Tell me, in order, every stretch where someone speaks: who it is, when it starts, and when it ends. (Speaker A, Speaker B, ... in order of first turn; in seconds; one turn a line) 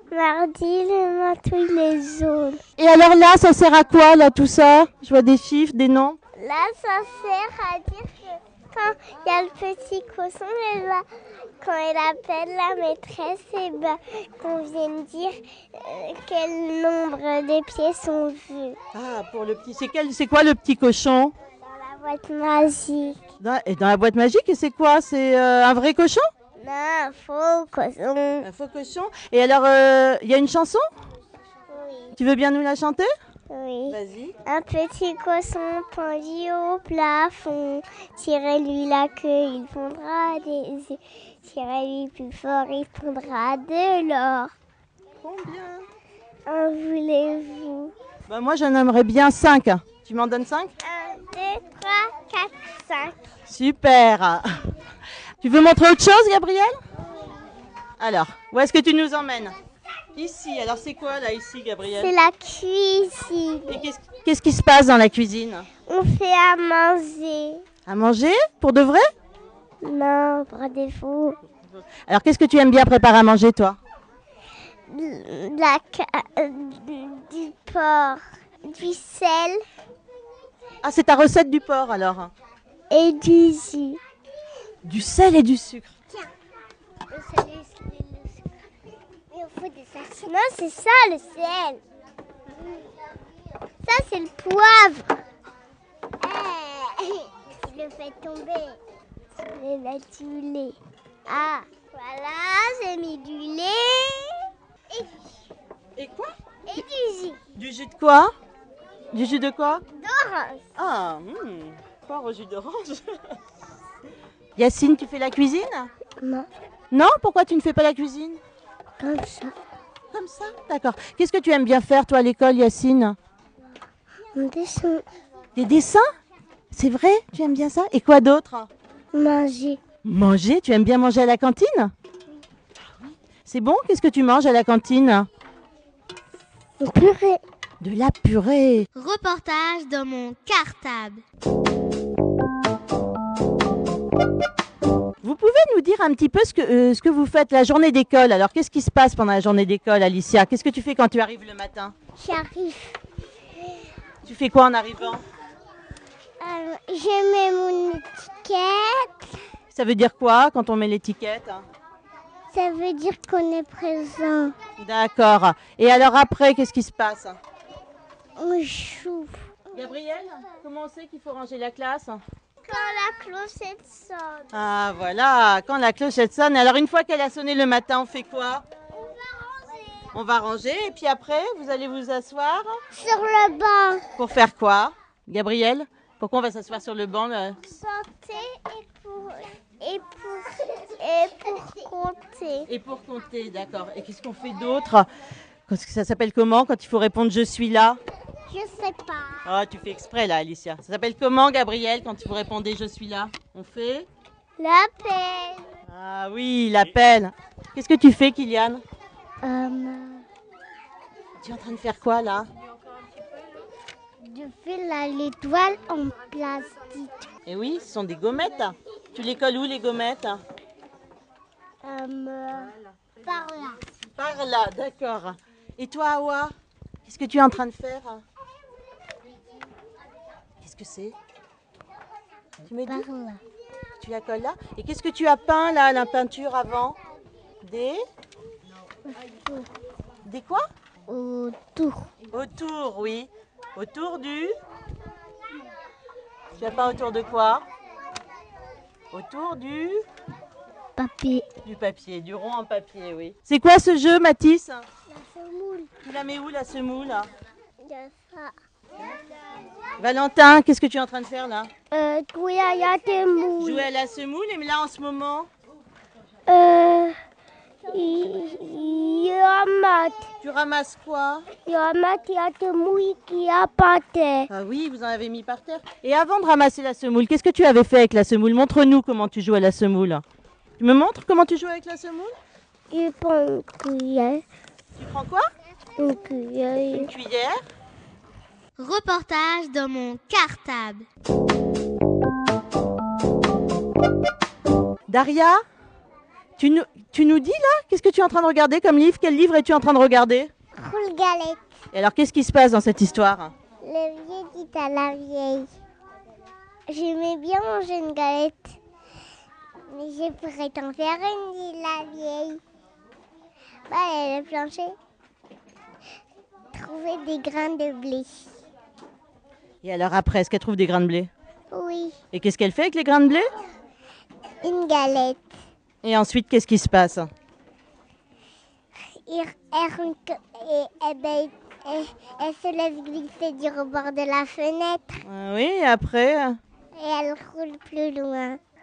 Speaker A: 0.1-2.6
Speaker B: 2.8-6.2
Speaker A: 6.3-11.0
Speaker A: 11.6-18.8
Speaker B: 18.9-21.3
Speaker A: 21.6-23.2
Speaker B: 23.4-26.2
Speaker A: 26.6-28.5
Speaker B: 28.4-30.8
Speaker A: 31.7-32.2
Speaker B: 32.2-33.1
Speaker A: 33.5-44.5
Speaker B: 33.9-34.3
Speaker B: 45.2-45.9
Speaker A: 46.5-47.9
Speaker B: 48.3-50.7
Speaker A: 50.8-53.3
Speaker B: 53.5-54.5
Speaker B: 55.4-56.7
Speaker B: 58.0-59.5
Speaker B: 60.1-62.1
Speaker A: 61.9-63.8
Speaker B: 63.7-65.7
Speaker A: 65.9-67.6
Speaker B: 67.9-69.0
Speaker A: 69.8-71.4
Speaker B: 71.7-73.8
Speaker A: 74.9-79.6
Speaker B: 80.8-82.3
Speaker A: 82.9-84.0
Speaker B: 84.8-85.9
Speaker A: 87.1-88.4
Speaker A: 89.3-91.8
Speaker A: 93.8-95.1
Speaker A: 96.2-98.8
Speaker A: 99.4-104.4
Speaker B: 106.0-106.3
Speaker A: 106.7-107.4
Speaker B: 107.5-108.3
Speaker B: 109.1-109.8
Speaker A: 109.9-110.6
Speaker B: 110.8-113.2
Speaker B: 114.6-115.9
Speaker A: 116.2-116.5
Speaker B: 116.9-118.4
Speaker A: 119.0-119.5
Speaker B: 120.1-123.2
Speaker A: 124.3-125.0
Speaker B: 125.5-126.0
Speaker B: 126.7-128.7
Speaker A: 129.1-129.8
Speaker B: 130.0-131.9
Speaker B: 133.4-135.3
Speaker A: 136.8-137.4
Speaker B: 137.8-138.9
Speaker C: 138.9-141.2
Speaker B: 145.2-151.9
Speaker A: 152.2-153.0
Speaker B: 154.2-155.2
Speaker A: 156.4-159.3
Speaker B: 159.7-161.6
Speaker A: 162.5-164.5
Speaker B: 164.8-167.4
Speaker A: 168.4-169.6
Speaker B: 169.7-172.2
Speaker A: 172.6-174.5
Speaker B: 174.5-178.6
Speaker A: 179.6-180.0
Speaker B: 180.1-182.8
Speaker A: 182.9-184.0
Speaker B: 184.2-187.6
Speaker A: 187.6-192.7
Speaker B: 192.7-195.1
Speaker B: 195.7-198.0
Speaker A: 198.5-199.4
Speaker B: 199.4-204.1
Speaker A: 204.6-205.7
Speaker B: 205.9-208.8
Speaker A: 209.4-210.2
Speaker B: 211.4-212.5
Speaker A: 214.2-217.3
Speaker B: 217.5-220.4
Speaker A: 221.8-222.7
Speaker A: 223.2-223.8
Speaker B: 224.2-226.5
Speaker B: 227.0-228.2
Speaker B: 230.6-231.2
Speaker B: 232.7-233.1
Speaker A: 232.9-233.4
Speaker B: 234.0-236.9
Speaker B: 237.6-238.0
Speaker A: 239.1-239.7
Speaker B: 240.2-240.7
Speaker A: 241.1-242.1
Speaker B: 242.3-244.5
Speaker B: 246.6-247.6
Speaker B: 249.1-250.0
Speaker A: 251.0-251.4
Speaker B: 251.6-254.8
Speaker A: 255.1-255.9
Speaker B: 256.0-257.3
Speaker A: 257.8-258.5
Speaker B: 260.0-261.7
Speaker A: 261.9-263.8
Speaker B: 263.6-265.5
Speaker A: 266.5-267.1
Speaker A: 267.9-270.2
Speaker B: 270.4-271.4
Speaker A: 271.6-274.4
Speaker B: 274.5-280.2
Speaker B: 280.8-282.3
Speaker A: 282.9-284.4
Speaker B: 285.0-285.5
Speaker A: 286.0-287.1
Speaker B: 286.9-287.6
Speaker C: 288.8-291.1
Speaker B: 295.1-295.6
Speaker B: 296.6-300.5
Speaker A: 300.8-301.6
Speaker B: 301.9-303.5
Speaker A: 303.8-305.7
Speaker A: 306.9-308.8
Speaker A: 309.9-312.6
Speaker A: 313.9-314.9
Speaker A: 316.7-318.4
Speaker B: 319.8-321.3
Speaker A: 321.7-322.2
Speaker B: 322.3-323.5
Speaker A: 324.6-325.4
Speaker B: 326.0-327.3
Speaker A: 329.1-335.2
Speaker B: 335.2-336.6
Speaker A: 336.9-338.6